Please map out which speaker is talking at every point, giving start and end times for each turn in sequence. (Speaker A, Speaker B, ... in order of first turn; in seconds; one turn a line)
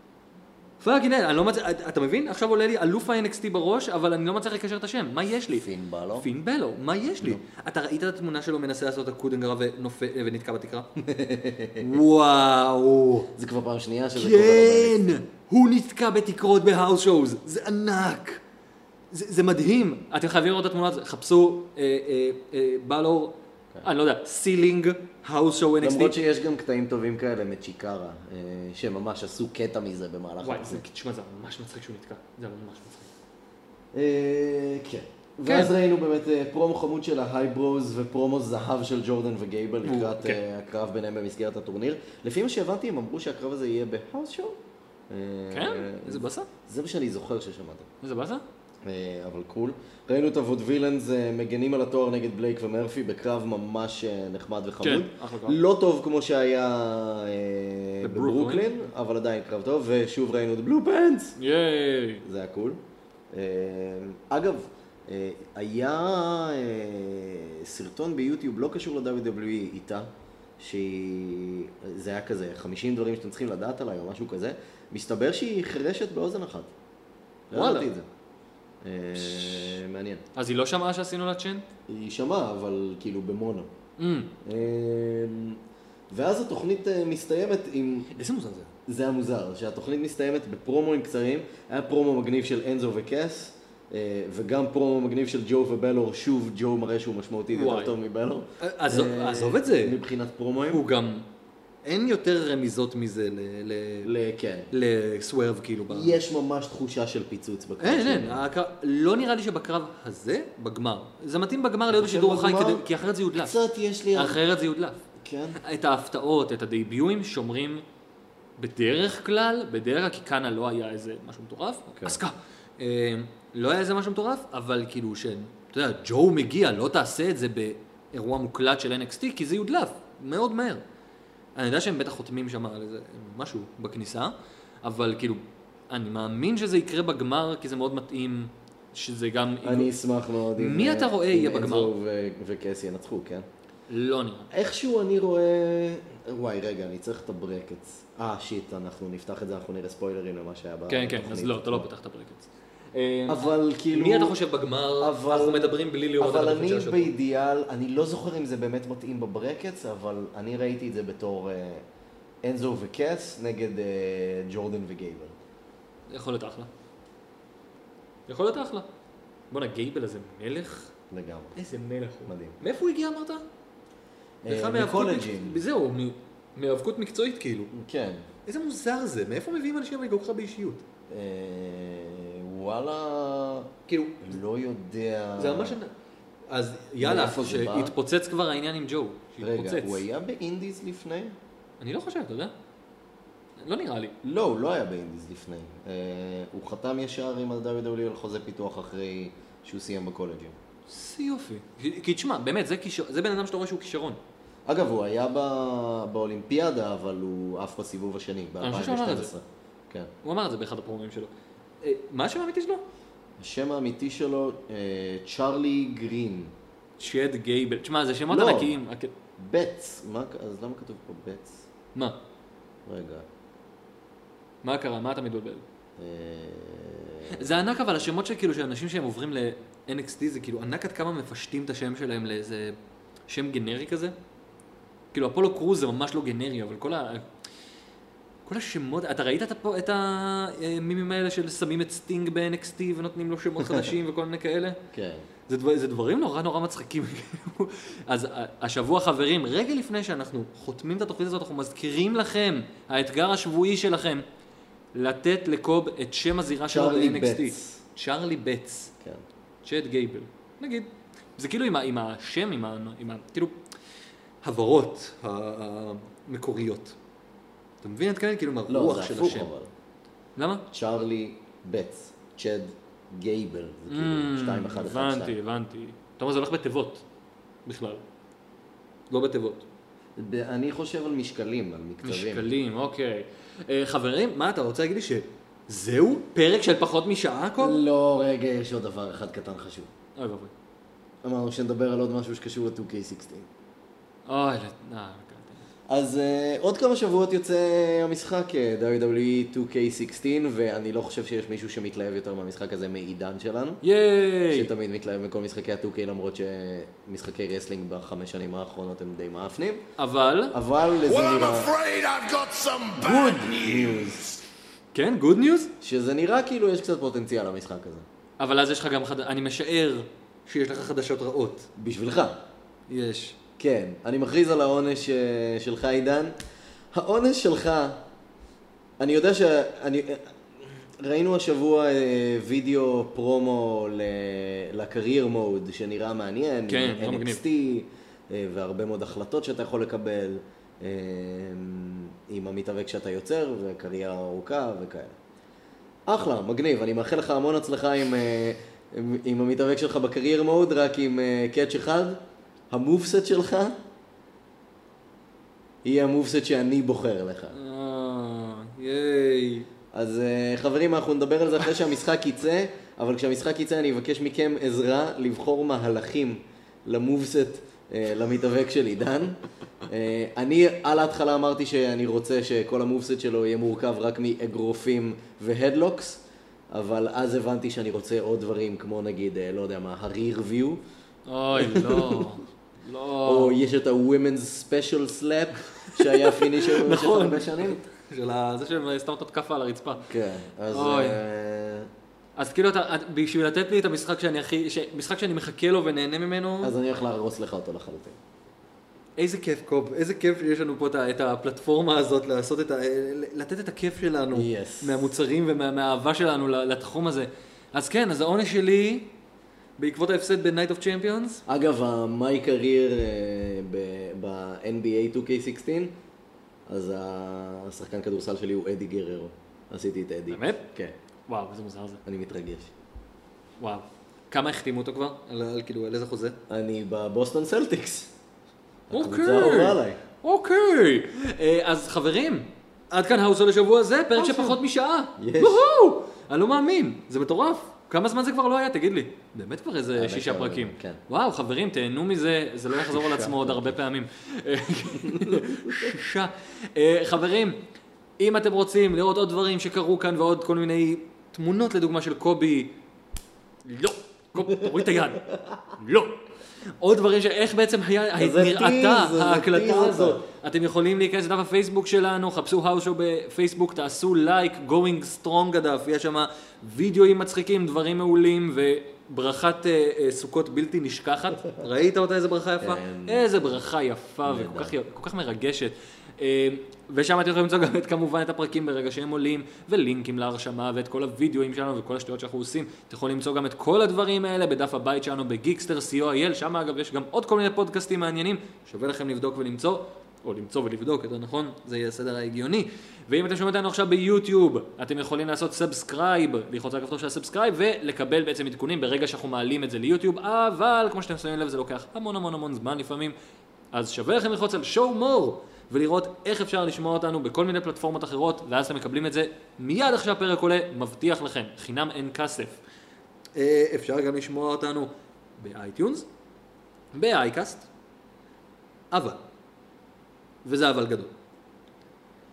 Speaker A: 0.8-5.7
Speaker B: 5.5-6.3
Speaker A: 6.2-10.9
Speaker B: 11.0-11.9
Speaker A: 11.8-13.3
Speaker B: 13.3-15.2
Speaker A: 14.2-18.4
Speaker A: 19.1-26.2
Speaker B: 25.8-30.8
Speaker A: 30.4-33.1
Speaker B: 33.9-44.6
Speaker A: 35.5-35.7
Speaker A: 39.8-40.4
Speaker B: 45.1-47.9
Speaker A: 45.5-46.5
Speaker A: 48.0-48.4
Speaker B: 48.8-61.4
Speaker A: 54.8-55.6
Speaker A: 58.0-58.7
Speaker A: 61.4-62.2
Speaker B: 62.2-62.8
Speaker B: 63.3-76.7
Speaker B: 77.5-78.0
Speaker A: 77.5-77.9
Speaker B: 78.8-80.2
Speaker A: 80.3-81.7
Speaker B: 81.9-83.7
Speaker A: 84.0-84.3
Speaker B: 84.4-85.6
Speaker B: 86.1-88.1
Speaker A: 88.1-88.7
Speaker B: 88.9-100.8
Speaker A: 97.5-98.0
Speaker A: 98.6-100.0
Speaker A: 100.7-101.2
Speaker A: 101.8-104.1
Speaker B: 104.0-104.7
Speaker A: 104.7-106.2
Speaker B: 105.9-108.5
Speaker A: 107.8-113.5
Speaker B: 111.9-114.4
Speaker A: 114.1-115.0
Speaker B: 115.2-115.6
Speaker A: 115.6-117.8
Speaker A: 118.6-130.8
Speaker B: 121.9-122.2
Speaker A: 131.6-139.9
Speaker B: 139.6-143.5
Speaker A: 140.6-141.9
Speaker A: 143.9-144.5
Speaker B: 144.5-151.9
Speaker A: 150.9-157.1
Speaker B: 153.3-154.4
Speaker B: 155.0-161.8
Speaker B: 162.4-165.3
Speaker A: 166.1-166.7
Speaker A: 168.3-168.9
Speaker A: 169.5-170.9
Speaker B: 171.1-171.6
Speaker A: 171.6-173.4
Speaker B: 172.3-172.6
Speaker B: 174.4-175.6
Speaker A: 174.5-177.7
Speaker B: 177.7-178.2
Speaker A: 178.4-180.8
Speaker B: 181.1-183.7
Speaker A: 183.9-184.3
Speaker B: 184.2-185.8
Speaker A: 185.4-185.9
Speaker A: 186.5-190.0
Speaker B: 187.0-187.9
Speaker B: 189.4-191.3
Speaker A: 191.8-192.5
Speaker A: 193.6-194.1
Speaker B: 194.2-200.6
Speaker A: 200.9-204.2
Speaker B: 204.7-210.1
Speaker A: 208.6-209.3
Speaker A: 210.2-212.8
Speaker B: 213.4-216.5
Speaker A: 217.0-219.1
Speaker B: 218.3-218.7
Speaker B: 219.4-221.6
Speaker B: 222.8-223.2
Speaker A: 224.6-225.6
Speaker B: 226.0-227.6
Speaker A: 227.3-232.8
Speaker A: 233.3-234.1
Speaker A: 235.1-237.2
Speaker A: 238.4-244.8
Speaker B: 243.6-243.9
Speaker B: 244.9-245.2
Speaker A: 245.5-254.2
Speaker A: 254.9-258.9
Speaker B: 256.7-257.8
Speaker A: 259.6-263.5
Speaker A: 264.4-266.9
Speaker A: 267.8-269.5
Speaker B: 268.7-269.7
Speaker A: 270.4-270.6
Speaker B: 270.7-275.4
Speaker A: 273.9-277.0
Speaker A: 277.6-278.0
Speaker A: 279.1-279.6
Speaker B: 280.1-282.5
Speaker A: 282.0-287.8
Speaker B: 287.6-289.9
Speaker A: 290.2-290.5
Speaker B: 291.2-293.5
Speaker A: 294.3-295.6
Speaker B: 295.9-303.8
Speaker A: 303.8-304.7
Speaker B: 304.5-309.8
Speaker A: 310.0-310.6
Speaker B: 310.5-311.7
Speaker C: 311.0-314.2
Speaker B: 313.0-314.3
Speaker A: 314.9-315.7
Speaker B: 315.8-318.1
Speaker A: 318.4-321.7
Speaker B: 321.8-322.4
Speaker A: 322.9-323.4
Speaker B: 323.6-326.3
Speaker B: 326.9-328.0
Speaker B: 329.0-345.2
Speaker A: 336.7-337.4
Speaker B: 346.1-353.8
Speaker B: 355.8-357.5
Speaker A: 357.5-359.7
Speaker B: 359.9-380.8
Speaker A: 381.3-383.6
Speaker B: 381.6-382.4
Speaker B: 383.2-387.8
Speaker A: 385.9-390.1
Speaker B: 390.1-391.9
Speaker A: 390.7-391.2
Speaker A: 392.4-396.7
Speaker B: 396.6-398.2
Speaker A: 399.2-409.1
Speaker B: 404.3-405.1
Speaker A: 409.8-411.4
Speaker B: 411.5-415.9
Speaker B: 416.7-420.9
Speaker A: 420.3-420.6
Speaker A: 421.3-422.0
Speaker B: 422.1-422.7
Speaker A: 423.6-426.4
Speaker B: 426.5-428.1
Speaker B: 428.9-430.0
Speaker A: 428.9-447.6
Speaker B: 434.1-434.6
Speaker B: 435.2-435.6
Speaker B: 439.9-441.0
Speaker B: 442.7-443.8
Speaker B: 445.0-446.0
Speaker A: 448.2-452.7
Speaker A: 453.6-456.2
Speaker B: 454.5-455.6
Speaker A: 456.8-503.1
Speaker B: 458.2-460.2
Speaker B: 472.6-473.6
Speaker B: 474.2-474.7
Speaker A: 503.7-512.6
Speaker A: 513.3-516.1
Speaker A: 516.9-517.7
Speaker A: 518.9-519.2
Speaker A: 520.4-521.1